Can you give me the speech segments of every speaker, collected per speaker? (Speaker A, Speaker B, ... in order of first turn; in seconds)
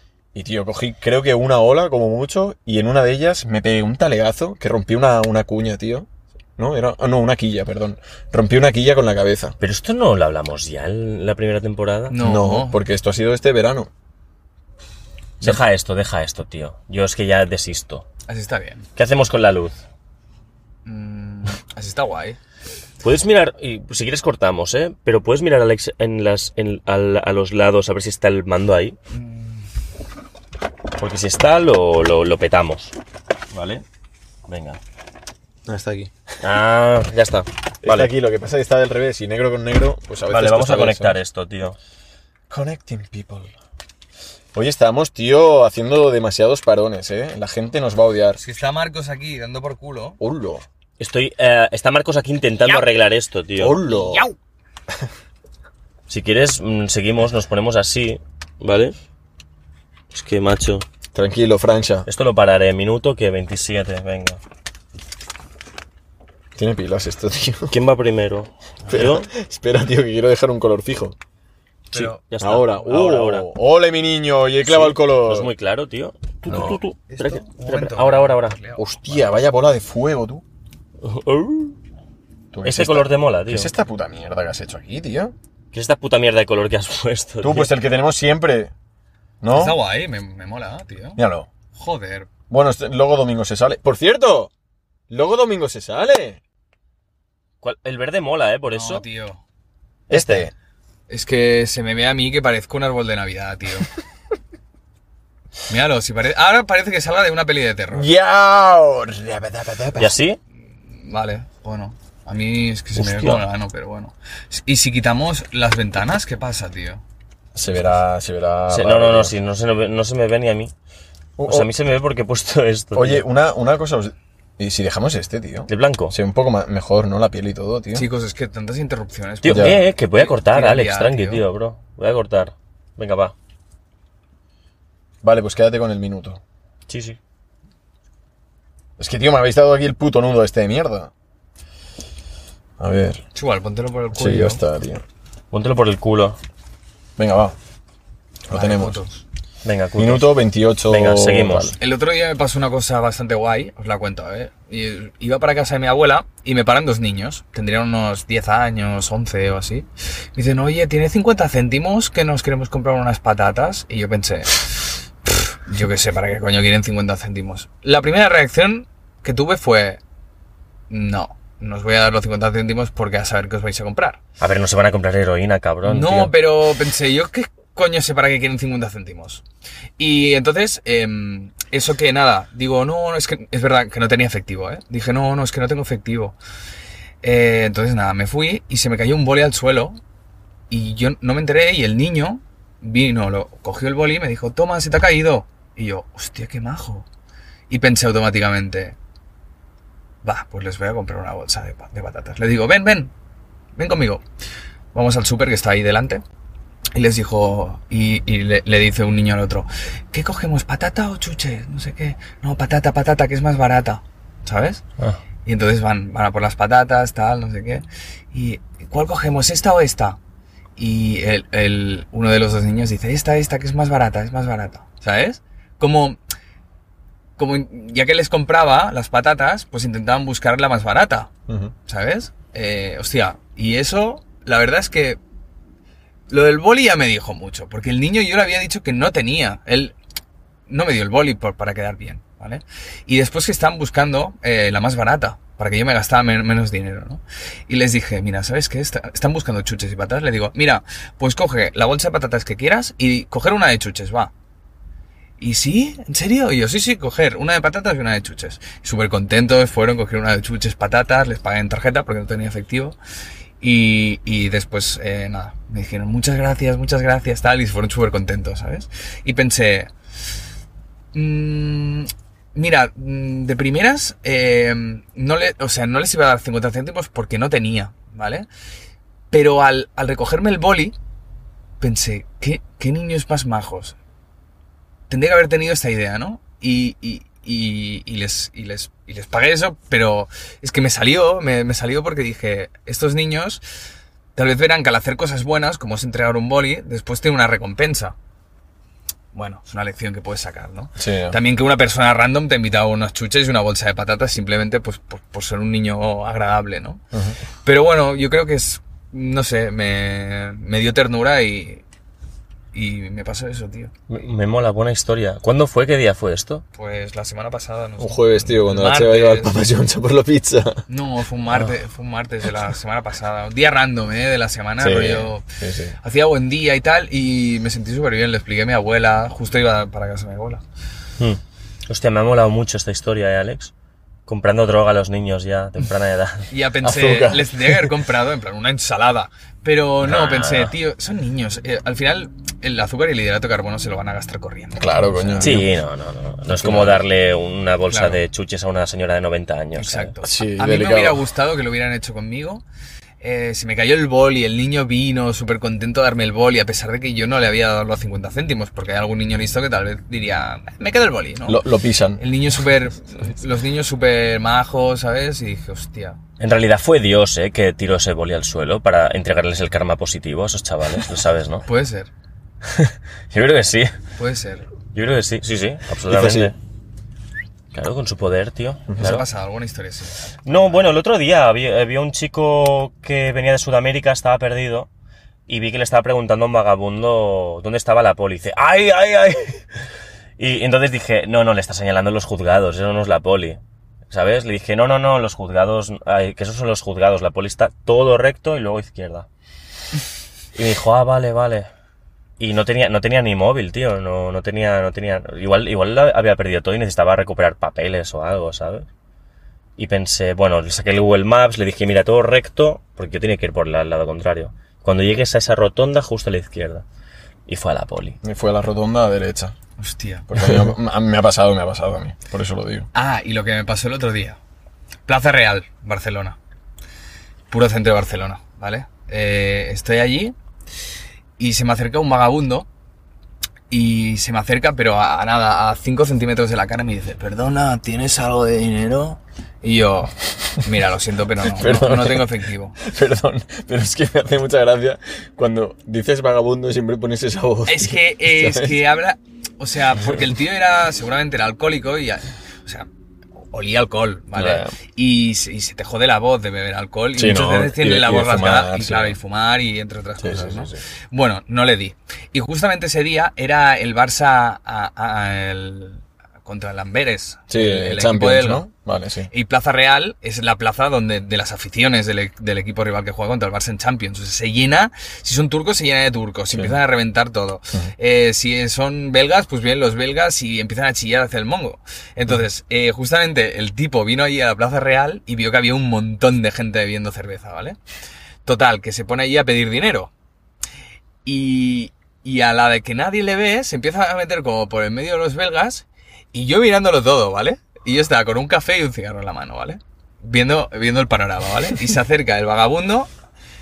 Speaker A: 0.3-9.6, 12.2-13.9, 35.7-36.1, 37.8-41.2, 42.5-43.5, 44.5-48.4, 50.2-50.6, 53.6-54.3, 61.1-62.1, 66.6-67.7, 68.9-71.2, 72.4-75.5, 76.5-76.8, 78.8-80.4, 82.5-85.3, 87.4-88.7, 89.4-89.8, 91.2-91.5, 92.5-94.5, 95.1-96.4, 100.1-100.5, 107.9-110.1, 117.5-119.3, 121.4-121.7, 122.9-128.1, 129.5-129.8, 135.2-136.4, 139.0-141.1, 142.8-143.2, 144.1-145.0, 147.2-147.6, 148.5-149.0, 150.0-151.8, 231.5-231.7, 301.0-301.4, 307.1-307.4, 318.0-320.8, 324.8-326.0, 336.8-338.0, 344.8-345.7, 346.5-347.0, 350.2-351.2, 361.5-362.2, 376.1-376.5, 378.9-379.2, 418.2-419.6, 420.3-422.9, 441.4-448.8, 454.3-454.7, 457.1-459.2, 460.2-460.8, 467.5-469.3, 476.5-476.8
Speaker B: 9.6-12.2, 15.4-18.1, 19.0-19.8, 23.0-29.0, 31.0-33.0, 33.5-33.9, 34.5-34.8, 36.4-38.1, 40.3-41.8, 51.0-53.8, 56.1-59.0, 60.1-60.9, 62.1-64.4, 67.7-69.3, 71.9-73.5, 74.6-78.6, 81.0-81.8, 82.6-83.7, 85.7-87.8, 97.6-99.0, 100.1-100.5, 110.0-110.4, 113.0-113.5, 118.7-120.7, 121.5-123.2, 125.7-126.2, 129.4-133.3, 136.9-137.2, 145.5-146.4, 149.6-150.4, 150.9-151.8, 174.4-176.3, 314.1-316.6, 331.2-333.7, 334.3-336.5, 340.0-340.7, 345.4-350.1, 366.4-371.7, 372.7-373.9, 374.9-376.6, 377.7-379.2, 380.5-384.9, 385.5-389.6, 390.4-399.3, 400.6-401.7, 402.4-408.9, 409.8-416.9, 417.5-418.2
Speaker C: 12.1-12.8, 18.3-18.9, 20.9-22.4, 29.1-29.7, 48.4-50.2, 53.8-54.4, 71.9-72.2, 77.1-79.3, 89.5-91.2, 91.7-92.3, 98.7-99.4, 101.1-103.9, 105.7-108.1, 110.9-117.0, 127.9-131.4, 143.3-144.6, 148.5-149.2, 151.8-170.0, 170.9-174.2, 175.8-179.4, 180.0-186.4, 187.2-190.0, 190.7-197.1, 197.7-199.0, 200.2-203.1, 203.8-204.2, 204.9-206.2, 206.9-214.8, 215.4-220.2, 220.8-226.2, 227.4-231.3, 231.9-235.2, 236.3-239.9, 240.7-254.3, 255.4-263.0, 263.6-269.9, 271.1-278.5, 279.3-281.0, 281.8-284.0, 285.1-293.6, 294.4-298.1, 299.3-307.0, 307.6-311.8, 312.7-313.9, 316.8-319.6, 320.9-325.4, 326.0-330.6, 336.5-345.6, 347.9-348.2, 349.8-352.6, 353.2-361.6, 362.2-366.2, 371.7-372.1, 374.2-374.7, 379.0-380.9, 419.8-420.3, 422.9-424.4, 425.1-426.4, 427.5-430.4, 431.4-432.7, 433.7-442.8, 447.7-452.9, 453.5-468.7, 469.3-487.8, 488.4-490.1, 491.2-503.1